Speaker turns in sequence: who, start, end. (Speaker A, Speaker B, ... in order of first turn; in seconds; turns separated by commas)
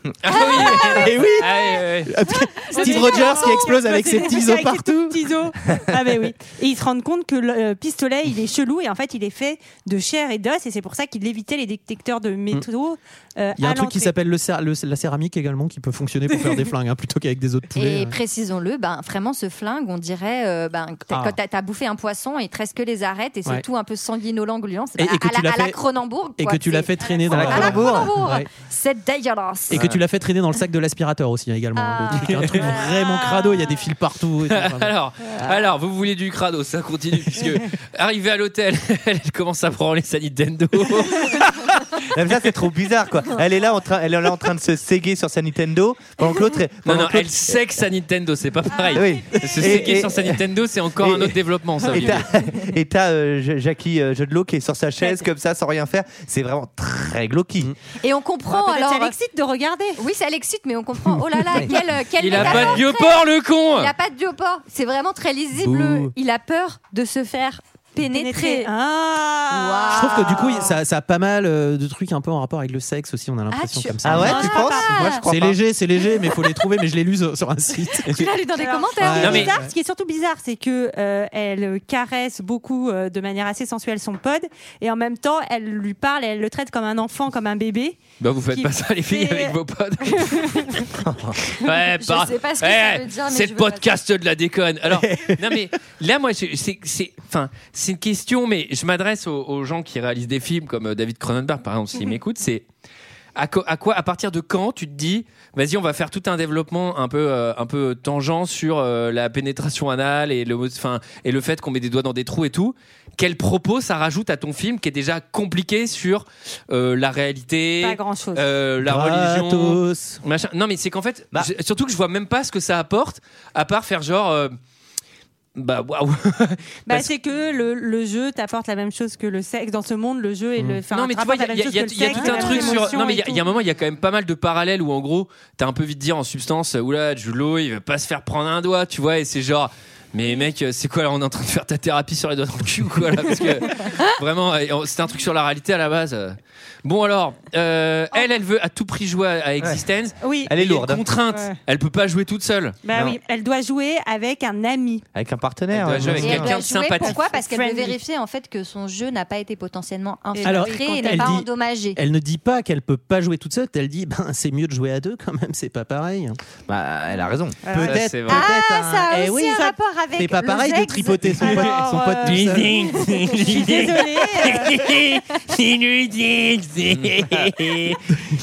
Speaker A: 0.2-2.1, Speaker B: 0.5-5.3, Speaker C: 2.5-3.7, Speaker D: 2.7-14.1, Speaker B: 13.6-18.2, Speaker C: 17.8-29.9, Speaker B: 21.1-21.4, Speaker B: 25.0-25.8, Speaker B: 26.4-28.5, Speaker E: 27.3-28.1, Speaker B: 29.7-34.9, Speaker E: 29.7-30.0, Speaker C: 31.7-33.1, Speaker A: 32.2-32.6, Speaker D: 32.6-33.9, Speaker A: 34.5-42.0, Speaker E: 42.1-47.6, Speaker A: 46.8-52.2, Speaker E: 48.9-50.4, Speaker E: 51.0-57.7, Speaker C: 58.0-59.1, Speaker D: 58.5-60.0, Speaker C: 60.0-68.7, Speaker E: 61.4-61.8, Speaker A: 62.2-63.9, Speaker E: 62.3-62.8, Speaker E: 65.5-66.1, Speaker D: 68.0-70.8, Speaker C: 69.5-70.7, Speaker B: 69.9-78.4, Speaker C: 73.5-75.2, Speaker E: 74.0-75.6, Speaker D: 74.2-75.2, Speaker C: 76.2-76.7, Speaker C: 77.9-79.5, Speaker D: 78.5-88.0, Speaker B: 79.0-79.7, Speaker A: 79.2-79.5, Speaker A: 88.2-90.9, Speaker D: 88.5-90.9, Speaker E: 91.0-91.4, Speaker A: 91.5-102.7, Speaker C: 92.0-93.9, Speaker B: 94.9-95.6, Speaker A: 103.3-124.5, Speaker D: 117.8-118.4, Speaker B: 118.8-120.2, Speaker A: 125.5-127.1, Speaker D: 126.8-133.4, Speaker B: 130.6-130.8, Speaker A: 130.9-152.8, Speaker D: 150.2-150.5, Speaker E: 150.4-151.2, Speaker D: 151.3-151.6, Speaker D: 152.8-155.0, Speaker E: 152.9-153.2, Speaker E: 155.1-156.6, Speaker A: 155.7-157.2, Speaker B: 155.9-156.4, Speaker C: 156.2-162.0, Speaker D: 157.2-158.0, Speaker D: 160.3-161.4, Speaker B: 160.4-166.4, Speaker E: 166.7-169.1, Speaker D: 167.6-174.9, Speaker A: 167.8-168.4, Speaker B: 167.8-169.5, Speaker C: 168.4-169.8, Speaker B: 170.2-172.9, Speaker A: 172.2-178.0